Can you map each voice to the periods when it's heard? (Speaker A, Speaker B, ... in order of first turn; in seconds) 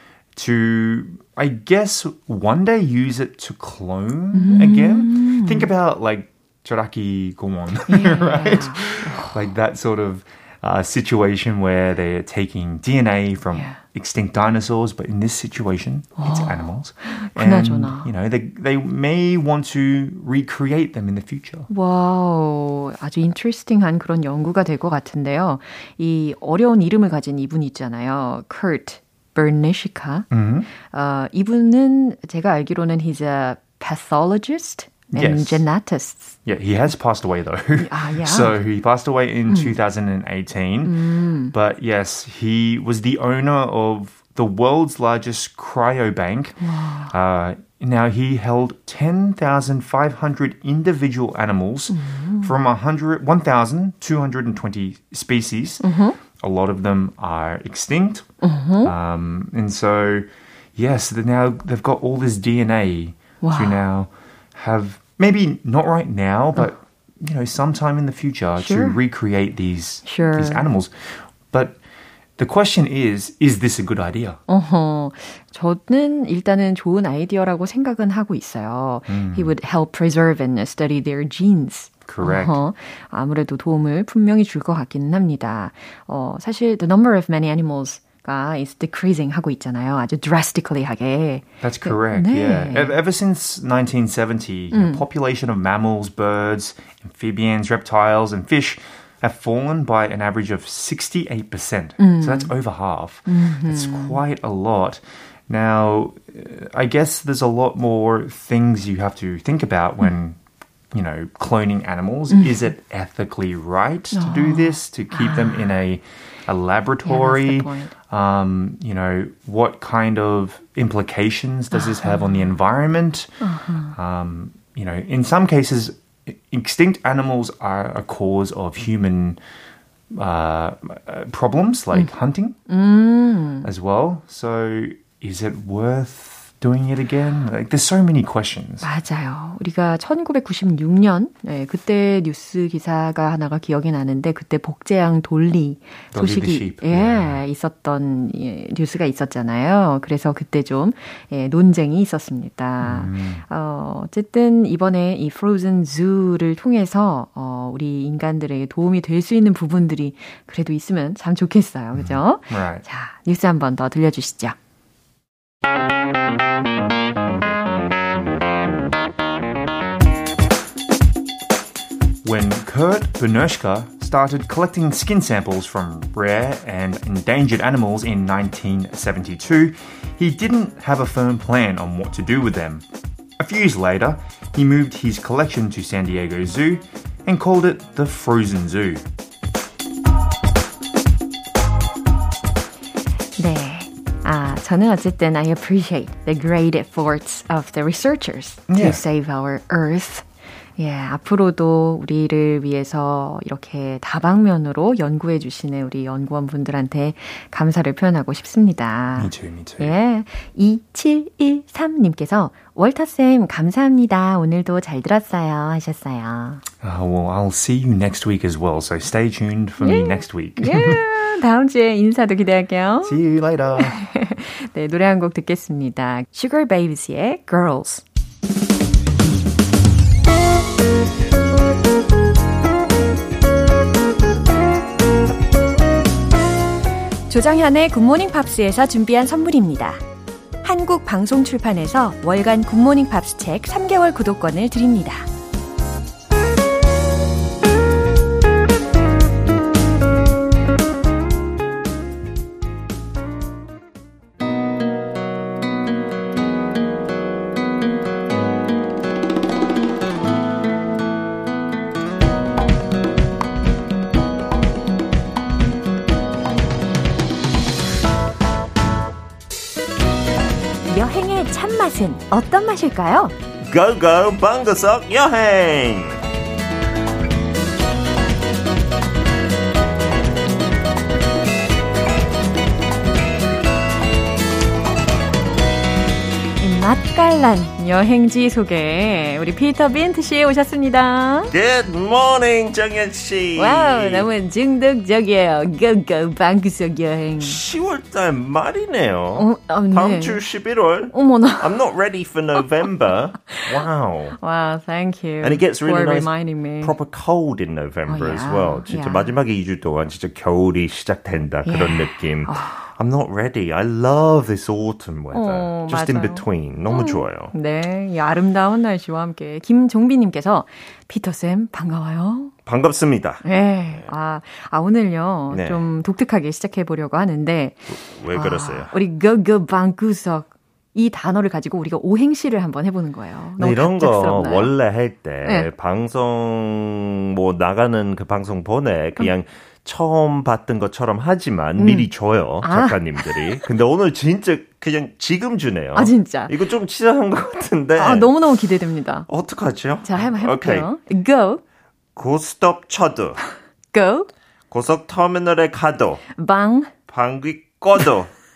Speaker A: 0.3-21.7, 30.3-30.7, 35.1-35.6, 36.5-58.3, 58.8-71.8, 72.4-74.4, 79.1-79.5, 82.1-82.6, 91.6-110.4, 110.9-129.4, 130.1-132.6, 133.6-138.9, 146.1-147.4, 152.8-153.4, 161.9-162.8, 172.2-182.8, 183.4-189.0, 198.7-199.0, 209.2-209.9, 216.8-221.0, 223.0-224.0
Speaker B: 4.3-5.7, 7.9-9.4, 13.5-13.8, 16.2-18.1, 21.7-30.3, 30.9-36.4, 37.8-38.6, 39.5-39.8, 40.9-41.5, 46.6-47.1, 51.9-52.5, 55.8-56.2, 58.4-58.9, 63.4-63.8, 68.6-69.0, 70.0-70.6, 74.5-92.9, 94.7-95.0, 102.0-102.5, 103.3-104.2, 114.1-115.7, 117.0-117.9, 123.4-123.9, 132.7-133.7, 138.8-164.6, 193.4-200.3, 200.8-216.6, 219.8-223.2, 223.7-228.0, 237.3-240.0, 240.6-245.3, 270.9-273.4, 286.6-291.5, 293.6-297.6, 299.4-300.4, 301.1-301.8, 304.4-306.9, 308.1-309.3, 311.6-312.9, 315.3-322.5, 323.4-334.7, 341.8-342.1, 342.6-343.7, 345.9-346.5, 348.0-349.3, 350.0-351.6, 353.9-354.3, 356.4-356.9
Speaker C: 273.6-276.2, 291.5-294.3, 297.4-304.4, 305.4-317.5, 322.7-324.1, 325.5-325.9, 327.9-328.9, 333.6-348.4, 349.3-350.9, 352.2-353.4, 354.7-356.2, 357.1-358.3